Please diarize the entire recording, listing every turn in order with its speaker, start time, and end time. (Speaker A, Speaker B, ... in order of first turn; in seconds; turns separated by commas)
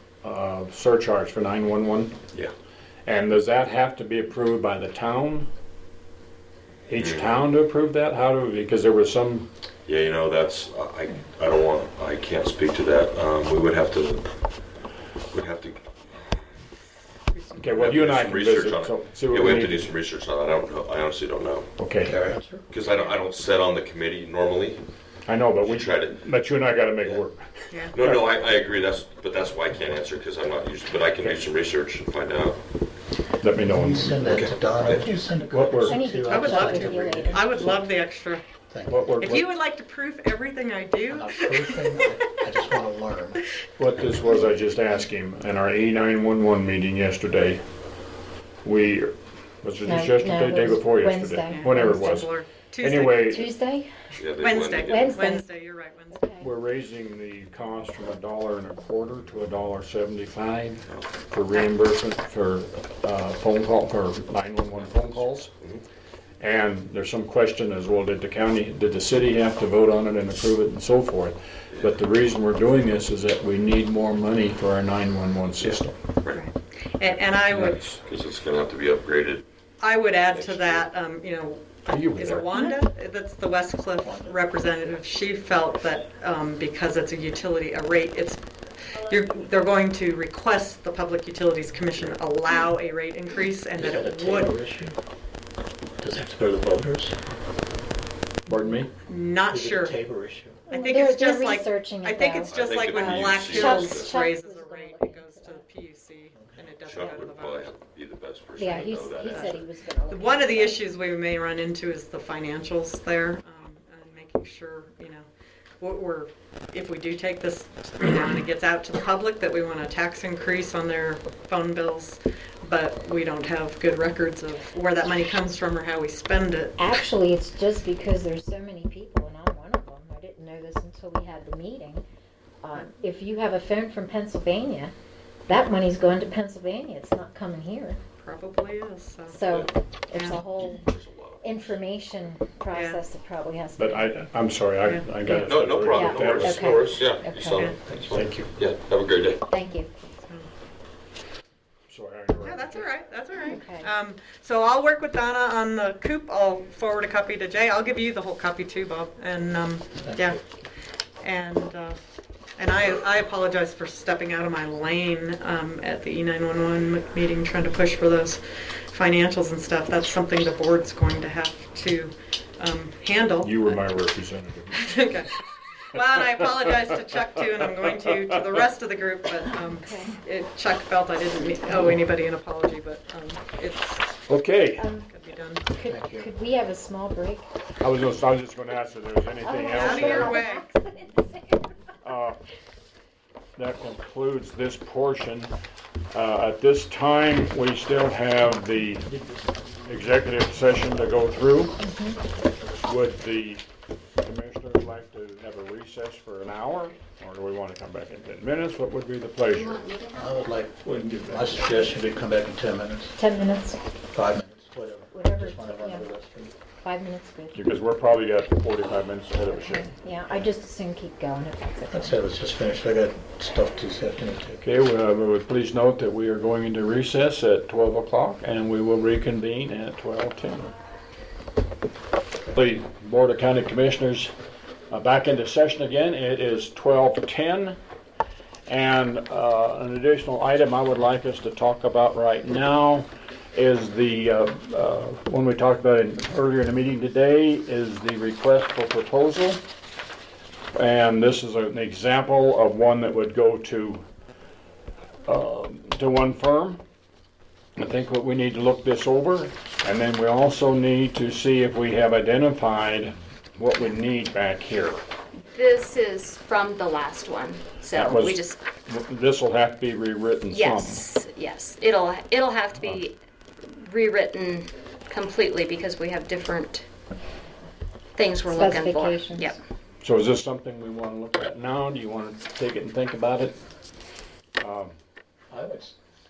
Speaker A: 0.2-2.2, Speaker A: 3.1-5.5, Speaker A: 6.9-9.5, Speaker B: 7.0-7.3, Speaker B: 9.9-14.4, Speaker B: 15.3-16.6, Speaker C: 17.3-17.9, Speaker A: 17.6-19.9, Speaker B: 17.7-21.7, Speaker A: 21.8-22.2, Speaker D: 22.0-22.7, Speaker B: 22.7-24.9, Speaker C: 22.9-23.2, Speaker A: 25.3-28.2, Speaker B: 25.6-26.3, Speaker B: 27.9-32.6, Speaker A: 33.4-36.0, Speaker D: 33.7-37.4, Speaker B: 34.2-35.1, Speaker E: 35.8-37.8, Speaker C: 36.2-38.4, Speaker D: 38.7-39.4, Speaker A: 38.9-39.4, Speaker C: 39.2-42.0, Speaker D: 41.1-43.5, Speaker A: 43.8-47.6, Speaker A: 48.6-53.5, Speaker E: 49.9-52.3, Speaker C: 51.5-53.4, Speaker E: 53.2-53.9, Speaker B: 54.2-55.2, Speaker C: 54.4-56.3, Speaker E: 54.8-55.5, Speaker E: 56.1-56.5, Speaker A: 56.4-65.5, Speaker B: 64.7-65.8, Speaker A: 66.4-76.0, Speaker B: 75.6-76.4, Speaker C: 76.3-77.8, Speaker A: 77.5-78.0, Speaker B: 77.8-79.4, Speaker C: 79.8-88.4, Speaker B: 80.3-80.9, Speaker A: 81.9-82.5, Speaker D: 84.0-84.4, Speaker C: 89.0-94.5, Speaker D: 93.8-95.0, Speaker D: 96.0-97.2, Speaker A: 98.5-98.9, Speaker C: 99.1-100.0, Speaker D: 99.5-100.7, Speaker C: 100.7-107.8, Speaker E: 100.7-105.6, Speaker B: 102.4-104.2, Speaker D: 106.4-106.7, Speaker B: 106.8-109.7, Speaker E: 108.6-110.8, Speaker C: 108.6-109.6, Speaker C: 110.1-115.3, Speaker C: 115.8-126.8, Speaker E: 126.8-132.0, Speaker E: 132.6-134.9, Speaker E: 135.5-138.0, Speaker C: 138.2-139.4, Speaker E: 139.3-140.9, Speaker C: 140.1-140.4, Speaker B: 140.5-141.8, Speaker E: 141.4-144.2, Speaker C: 142.7-143.0, Speaker A: 143.8-146.7, Speaker E: 145.3-147.7, Speaker B: 145.4-149.4, Speaker D: 147.8-148.1, Speaker A: 148.1-148.5, Speaker E: 149.5-149.9, Speaker A: 151.9-152.9, Speaker C: 152.4-160.4, Speaker E: 153.4-153.9, Speaker D: 160.0-160.4, Speaker C: 161.2-162.0, Speaker C: 162.6-173.8, Speaker A: 173.4-174.9, Speaker C: 174.8-175.3, Speaker C: 175.9-184.1, Speaker E: 179.7-180.2, Speaker A: 184.3-184.9, Speaker E: 184.8-185.1, Speaker C: 185.1-185.7, Speaker E: 185.7-187.5, Speaker D: 185.8-186.3, Speaker A: 187.8-190.4, Speaker E: 189.4-192.0, Speaker C: 189.7-190.7, Speaker A: 192.0-192.4, Speaker A: 193.6-195.5, Speaker A: 196.1-199.1, Speaker D: 199.2-199.7, Speaker A: 199.9-201.8, Speaker E: 201.8-202.2, Speaker A: 202.8-203.6, Speaker A: 204.2-209.8, Speaker F: 209.6-210.4, Speaker D: 210.1-213.2, Speaker A: 210.9-211.9, Speaker E: 213.2-213.8, Speaker D: 214.1-216.5, Speaker E: 215.1-216.1, Speaker E: 216.8-217.6, Speaker A: 217.5-219.9, Speaker E: 219.5-222.2, Speaker D: 221.9-224.6, Speaker A: 224.6-230.7, Speaker A: 232.5-234.3, Speaker A: 234.9-237.8, Speaker A: 238.7-249.6, Speaker A: 250.8-254.1, Speaker A: 255.2-256.8, Speaker A: 257.8-265.0, Speaker F: 265.5-268.6, Speaker A: 267.9-271.1, Speaker F: 270.5-276.9, Speaker F: 278.2-279.6, Speaker E: 278.5-279.6, Speaker A: 280.0-283.6, Speaker A: 284.6-285.0, Speaker D: 285.5-286.0